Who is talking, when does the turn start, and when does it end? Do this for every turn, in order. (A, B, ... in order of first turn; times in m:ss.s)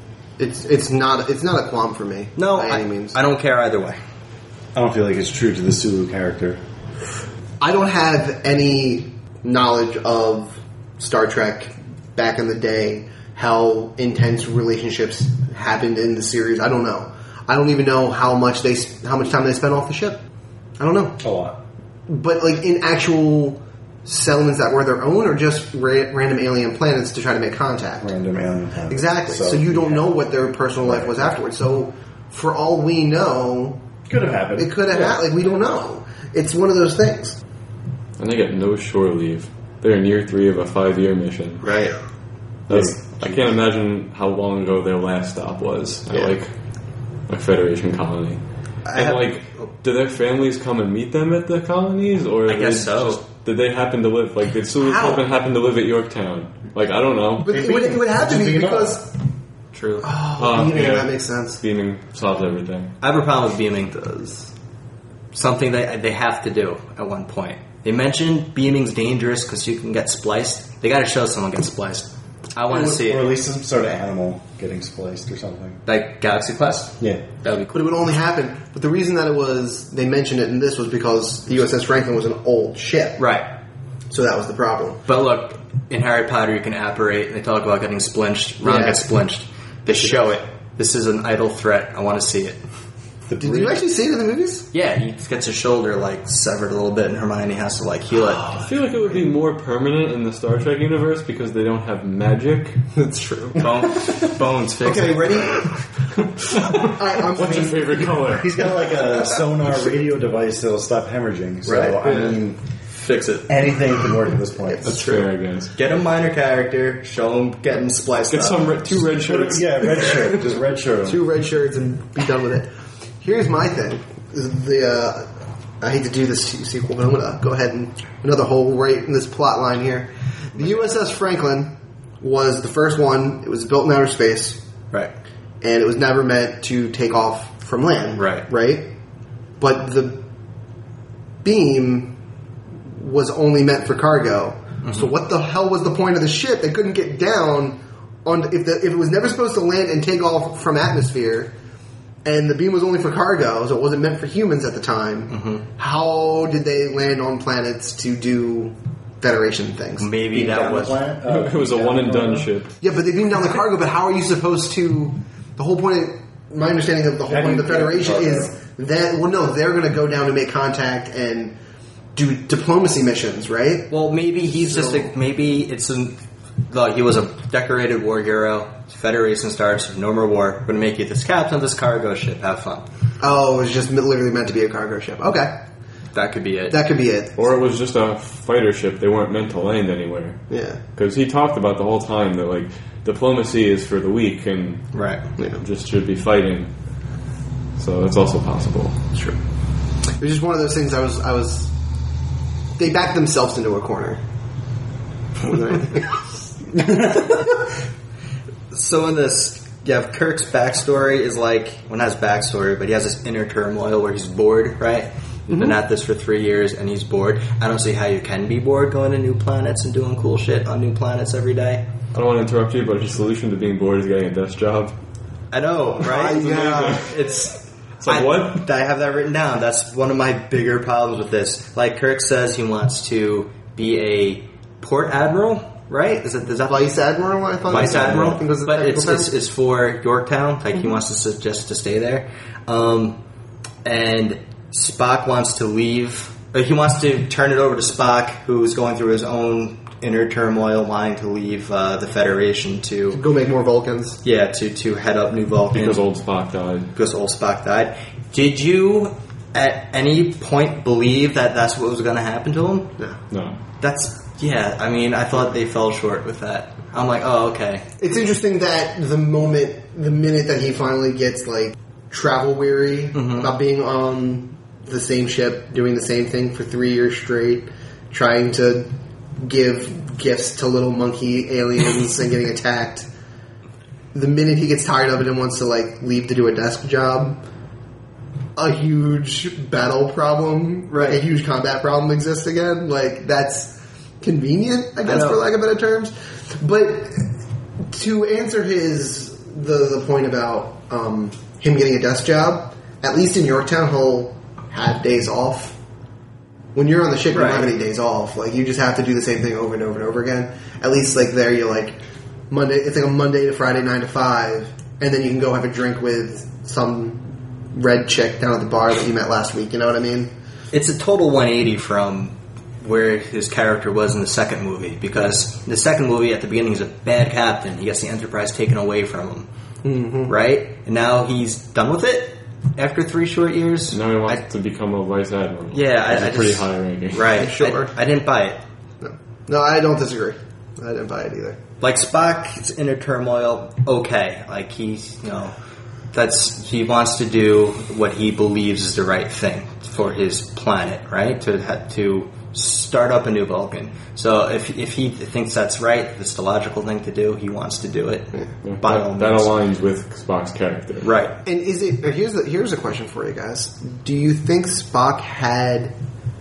0:00.4-0:03.2 A
0:02.4-0:04.0 B
0:04.7-0:06.6 C
0:07.6-0:20.2 A
0:20.8-0:21.2 A
0:21.2-0:21.6 C
0:22.1-0:28.1 A
0:28.0-0:30.1 C
0:28.9-0:33.8 A
0:30.8-0:31.4 C
0:34.1-0:35.1 C
0:34.6-0:37.4 A
0:38.2-0:41.7 D
0:41.6-0:42.0 B
0:42.7-0:46.5 D
0:42.7-0:43.2 C
0:46.1-0:46.3 B
0:47.3-0:48.4 D
0:48.9-0:49.7 B
0:48.9-0:57.5 D
0:52.5-0:53.2 B
0:54.8-0:55.2 A
0:57.4-0:59.1 A
0:57.5-0:59.0 C
0:59.7-1:00.1 B
1:00.0-1:01.6 A
1:00.4-1:02.9 D
1:03.0-1:04.5 B
1:05.3-1:13.3 B
1:12.7-1:15.8 C
1:15.8-1:18.0 B
1:17.7-1:23.2 A
1:23.2-1:23.5 B
1:24.1-1:25.0 A
1:25.1-1:32.6 B
1:28.6-1:29.0 A
1:33.3-1:33.8 C
1:33.4-1:34.7 A
1:34.7-1:38.5 B
1:38.5-1:42.9 D
1:42.9-1:44.0 A
1:43.6-1:45.8 B
1:44.8-1:45.2 C
1:46.7-1:48.1 A
1:46.8-1:48.6 D
1:48.3-1:52.6 C
1:51.6-1:53.7 B
1:53.5-1:55.0 C
1:54.8-1:55.7 D
1:55.7-1:58.8 B
1:58.3-2:00.1 D
1:59.1-2:01.2 C
2:01.0-2:02.7 A
2:03.2-2:05.3 A
2:05.8-2:14.6 A
2:10.6-2:10.9 B
2:15.6-2:18.9 A
2:18.2-2:18.4 B
2:19.6-2:20.2 A
2:21.4-2:22.2 A
2:22.9-2:31.5 A
2:24.8-2:25.1 B
2:32.2-2:40.1 A
2:35.3-2:35.6 B
2:40.0-2:41.0 B
2:40.3-2:42.5 C
2:41.2-2:42.8 D
2:42.8-2:51.6 A
2:47.3-2:48.5 C
2:52.1-2:53.9 A
2:53.9-3:02.9 B
2:54.5-2:55.1 A
3:03.2-3:05.6 A
3:06.1-3:06.8 B
3:06.7-3:07.4 A
3:07.4-3:10.4 D
3:10.5-3:10.8 A
3:10.9-3:14.9 D
3:14.9-3:15.2 B
3:15.4-3:15.6 A
3:15.6-3:16.7 D
3:17.8-3:19.0 D
3:20.2-3:21.7 A
3:22.8-3:24.2 A
3:25.4-3:26.2 A
3:28.7-3:41.8 B
3:42.1-3:44.9 D
3:45.5-3:57.0 B
3:46.0-3:47.1 A
3:46.2-3:47.2 D
3:48.0-3:48.7 D
3:56.7-3:59.3 A
3:57.7-4:03.2 B
3:57.7-3:58.4 C
4:03.8-4:13.2 B
4:13.1-4:14.2 A
4:14.2-4:16.0 B
4:15.7-4:16.9 D
4:16.9-4:22.9 B
4:23.3-4:23.6 D
4:23.8-4:27.8 B
4:28.0-4:43.1 A
4:33.1-4:33.5 B
4:44.1-4:47.4 A
4:48.6-4:57.3 A
4:50.9-4:51.2 B
4:55.0-4:55.4 B
4:57.9-5:05.8 A
5:06.7-5:12.0 A
5:07.3-5:07.7 B
5:12.5-5:20.3 A
5:20.7-5:29.5 B
5:29.8-5:30.3 A
5:30.3-5:34.4 B
5:33.9-5:37.5 D
5:35.7-5:38.6 B
5:37.3-5:37.9 A
5:39.0-5:41.6 A
5:41.8-5:45.6 B
5:46.1-5:59.5 B
5:58.6-6:01.1 D
6:01.0-6:01.4 B
6:01.4-6:05.9 A